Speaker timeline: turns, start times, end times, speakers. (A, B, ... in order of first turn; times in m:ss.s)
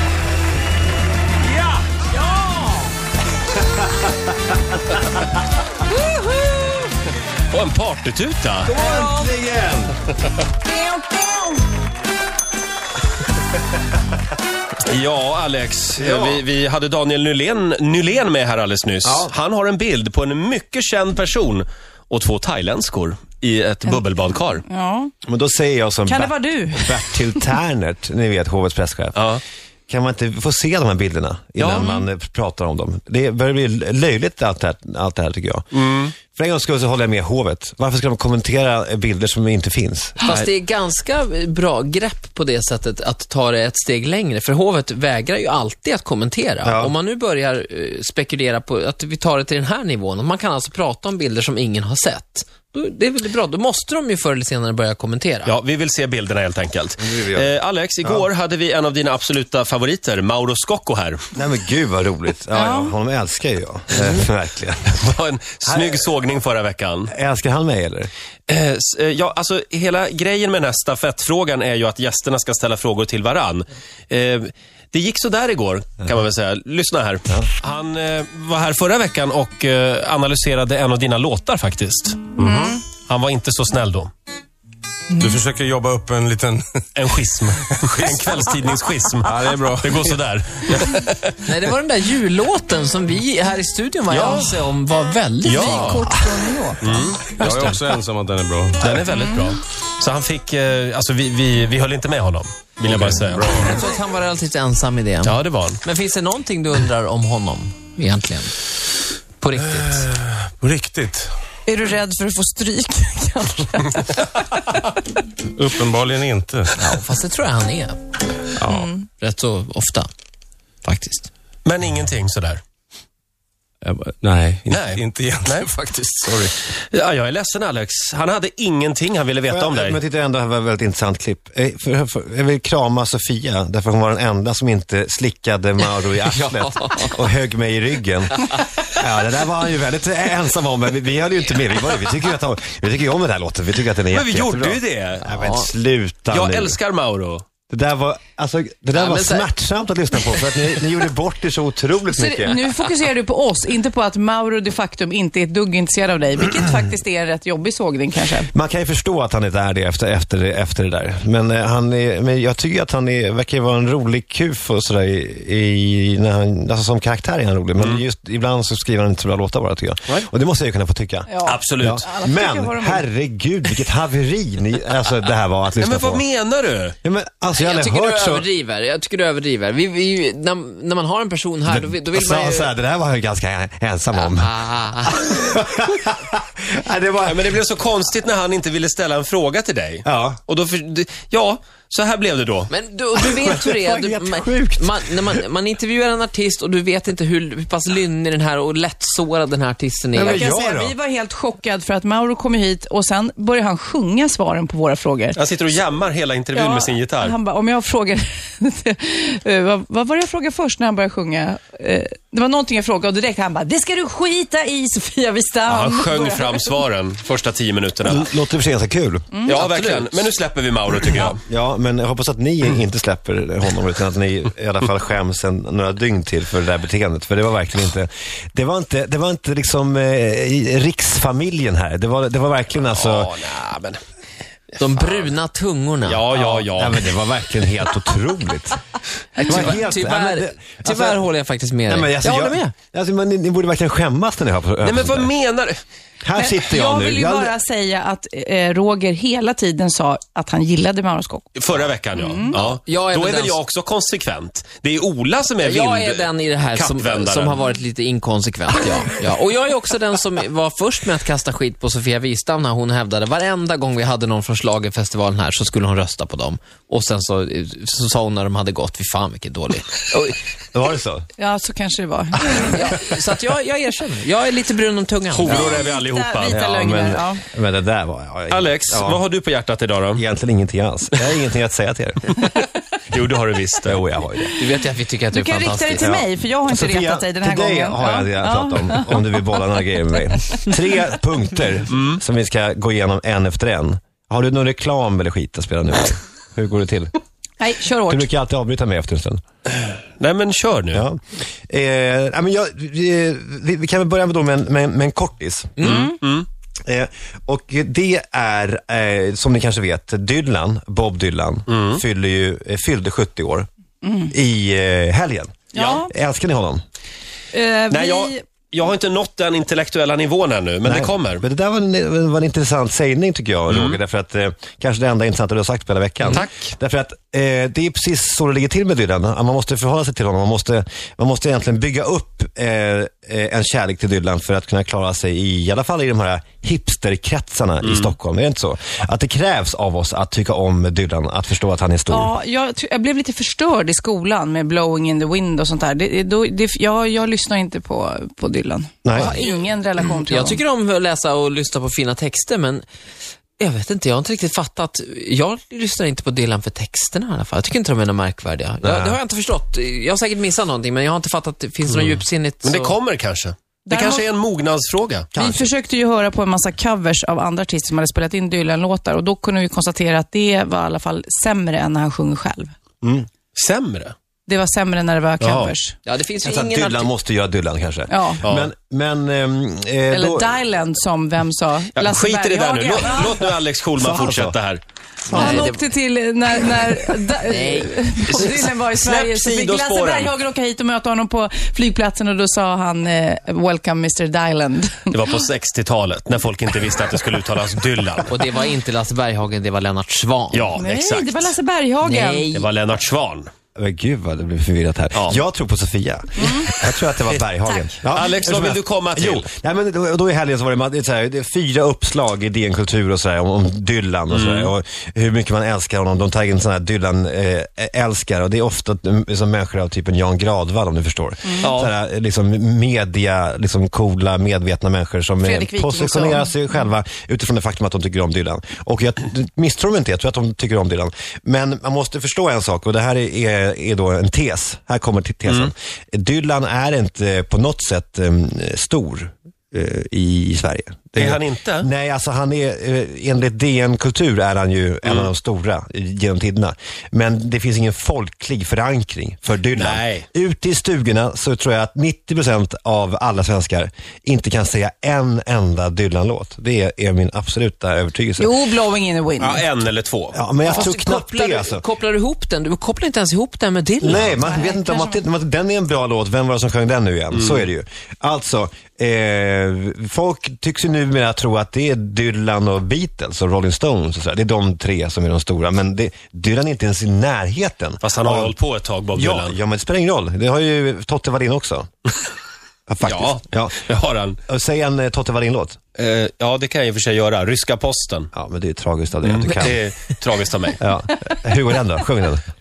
0:03.7-0:04.3 A
0:04.9-0:05.2 A
0:05.9-0:06.8 B
0:07.5-0:08.7 C
0:08.7-0:09.9 A
0:08.8-0:09.3 B
0:10.6-0:11.5 B
0:14.8-0:24.6 C
0:16.0-0:16.4 A
0:19.0-0:19.3 A
0:24.6-0:25.1 B
0:25.2-0:29.4 A
0:26.0-0:27.5 B
0:29.1-0:29.4 C
0:29.9-0:40.2 A
0:31.6-0:31.9 C
0:31.7-0:32.0 B
0:35.7-0:36.1 C
0:40.2-0:55.5 D
0:40.2-0:40.5 C
0:46.6-0:46.9 A
0:55.4-1:01.2 C
0:57.0-0:57.5 A
1:01.3-1:04.9 A
1:02.5-1:02.9 B
1:05.0-1:07.1 C
1:05.6-1:06.1 A
1:07.1-1:08.1 A
1:08.5-1:22.4 C
1:22.4-1:22.8 B
1:22.4-1:22.7 E
1:23.0-1:24.1 C
1:25.1-1:26.8 E
1:26.9-1:31.5 C
1:27.8-1:28.5 E
1:29.2-1:30.2 E
1:31.4-1:36.1 D
1:34.1-1:34.6 C
1:34.2-1:34.4 B
1:35.4-1:36.1 C
1:35.5-1:37.0 B
1:36.8-1:37.7 C
1:37.3-1:39.0 E
1:37.4-1:37.8 D
1:38.8-1:43.7 C
1:39.2-1:39.5 B
1:42.8-1:43.8 E
1:43.6-1:48.5 D
1:45.2-1:45.8 C
1:49.4-1:50.1 D
1:50.3-1:51.3 E
1:51.7-1:55.2 B
1:55.4-1:56.7 E
1:56.8-1:58.0 D
1:58.6-1:58.9 A
1:58.6-1:59.0 B
1:59.2-2:00.1 D
2:00.8-2:01.3 D
2:01.6-2:02.6 C
2:03.8-2:06.5 E
2:04.7-2:05.7 C
2:06.6-2:10.0 C
2:09.5-2:26.8 A
2:16.4-2:17.1 D
2:24.1-2:25.2 C
2:25.2-2:25.7 D
2:26.3-2:27.4 C
2:27.7-2:32.6 A
2:28.9-2:29.5 D
2:32.1-2:38.5 B
2:38.5-2:56.2 A
2:51.3-2:53.0 B
2:51.4-2:52.0 C
2:55.8-2:57.0 C
2:57.0-2:58.5 A
2:57.6-3:02.7 D
3:01.6-3:07.6 A
3:04.1-3:05.2 D
3:07.2-3:12.7 C
3:10.0-3:10.4 A
3:12.7-3:20.5 D
3:13.3-3:15.0 A
3:20.1-3:20.9 A
3:20.2-3:25.4 B
3:25.3-3:27.4 C
3:26.5-3:36.8 B
3:35.7-3:38.3 C
3:38.0-3:39.3 A
3:39.3-3:40.0 B
3:39.4-3:41.4 C
3:41.4-3:53.3 A
3:52.9-3:54.0 C
3:54.8-3:56.2 D
3:55.0-3:55.3 C
3:56.0-3:57.1 C
3:56.3-3:58.8 A
3:59.4-4:02.6 D
3:59.4-4:01.2 A
4:01.9-4:05.3 A
4:04.8-4:05.8 C
4:06.2-4:07.5 A
4:06.4-4:11.6 B
4:11.6-4:17.6 C
4:12.1-4:12.6 B
4:12.5-4:13.6 D
4:15.6-4:30.4 D
4:30.7-4:31.3 A
4:31.4-4:32.8 B
4:32.6-4:35.8 D
4:35.3-4:36.6 C
4:35.5-4:37.4 B
4:36.5-4:39.2 A
4:38.5-4:40.2 C
4:40.1-4:42.4 A
4:43.1-4:44.0 C
4:43.8-4:44.6 A
4:44.6-4:46.0 D
4:45.3-4:49.4 B
4:46.0-4:57.1 A
4:51.9-4:52.2 C
4:57.6-4:58.3 B
4:58.0-4:59.4 A
5:00.2-5:01.0 C
5:01.7-5:06.0 A
5:05.8-5:06.5 C
5:06.9-5:13.7 A
5:11.7-5:12.0 C
5:14.0-5:14.3 B
5:14.3-5:16.8 A
5:15.7-5:16.1 B
5:15.8-5:16.0 C
5:17.5-5:18.4 B
5:17.9-5:21.4 C
5:20.8-5:42.3 A
5:23.7-5:24.0 C
5:26.2-5:26.7 C
5:37.8-5:38.1 C
5:42.1-5:50.6 B
5:49.0-5:49.3 A
5:49.2-5:52.8 D
5:53.6-6:03.0 D
5:58.8-5:59.2 A
6:01.9-6:05.3 C
6:03.9-6:04.3 B
6:05.3-6:12.7 B
6:05.3-6:05.7 A
6:13.0-6:14.1 C
6:14.5-6:16.0 B
6:15.4-6:15.7 C
6:16.0-6:17.1 D
6:16.4-6:20.6 A
6:18.1-6:18.4 B
6:18.4-6:18.7 C
6:20.1-6:23.4 B
6:21.9-6:24.8 C
6:24.0-6:24.6 A
6:25.3-6:35.2 B
6:25.3-6:25.8 D
6:27.4-6:27.9 D
6:28.3-6:30.3 C
6:35.1-6:38.4 C
6:38.3-6:40.8 D
6:40.5-6:41.5 C
6:40.8-6:42.5 B
6:42.0-6:42.7 D
6:42.5-6:43.5 C
6:43.8-7:38.6 A
6:45.1-6:45.4 C
6:48.1-6:49.5 C
6:54.3-6:54.7 C
7:01.6-7:01.9 C
7:05.4-7:06.5 B
7:21.2-7:21.9 C
7:25.0-7:25.3 C
7:29.7-7:30.2 C
7:38.4-7:39.6 B
7:39.4-7:40.9 C
7:40.3-7:41.8 A
7:40.6-7:44.3 D
7:44.0-7:58.6 A
7:44.3-7:45.2 B
7:47.3-7:47.7 C
7:58.0-7:59.6 C
7:59.1-8:01.9 A
8:02.9-8:03.8 A
8:03.0-8:04.4 C
8:04.4-8:05.8 A
8:06.0-8:08.3 C
8:08.3-8:09.8 A
8:09.2-8:10.8 C
8:10.8-8:12.4 A